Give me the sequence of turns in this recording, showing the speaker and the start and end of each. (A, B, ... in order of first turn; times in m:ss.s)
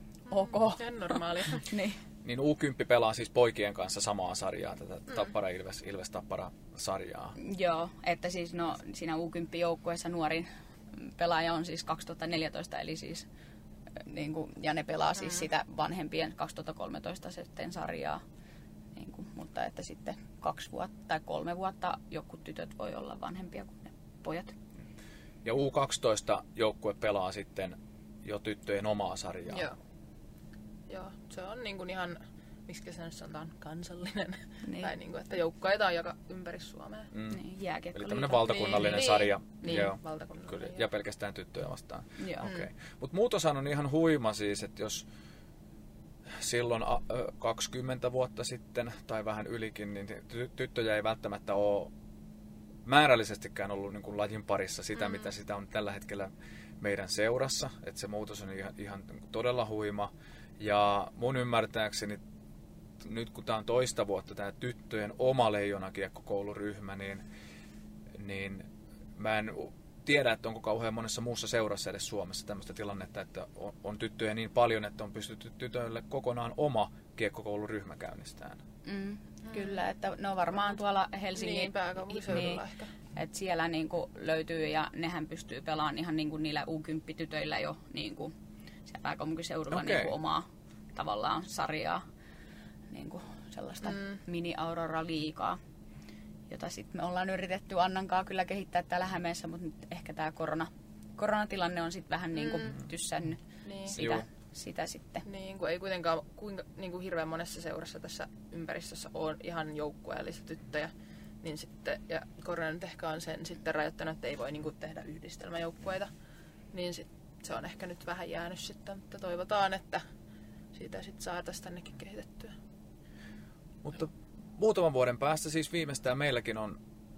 0:00.3-0:02.0 A
0:00.3-0:01.7 B
0:02.2-0:07.4 C
0:07.4-0:13.3 A
0:14.0-0:18.2 A
0:19.0-0:24.6 A
0:25.4-0:29.7 C
0:29.5-0:29.8 B
0:30.9-0:37.1 B
0:34.6-0:34.9 A
0:37.1-0:37.4 C
0:37.3-0:39.2 A
0:37.9-0:45.1 C
0:38.8-0:40.8 B
0:42.2-0:42.5 A
0:46.3-0:51.9 C
0:52.8-1:02.2 C
1:03.0-1:07.2 C
1:08.2-1:18.6 C
1:18.8-1:22.6 A
1:19.5-1:19.8 B
1:21.4-1:22.9 B
1:23.2-1:28.3 A
1:28.9-1:32.0 A
1:29.7-1:30.1 C
1:32.9-1:35.6 A
1:33.9-1:34.2 B
1:36.5-1:45.2 A
1:42.4-1:42.7 B
1:43.6-1:44.0 B
1:43.9-1:44.2 C
1:45.3-1:50.9 B
1:51.4-1:56.1 B
1:56.7-2:00.0 B
2:00.7-2:02.5 B
2:03.8-2:06.8 C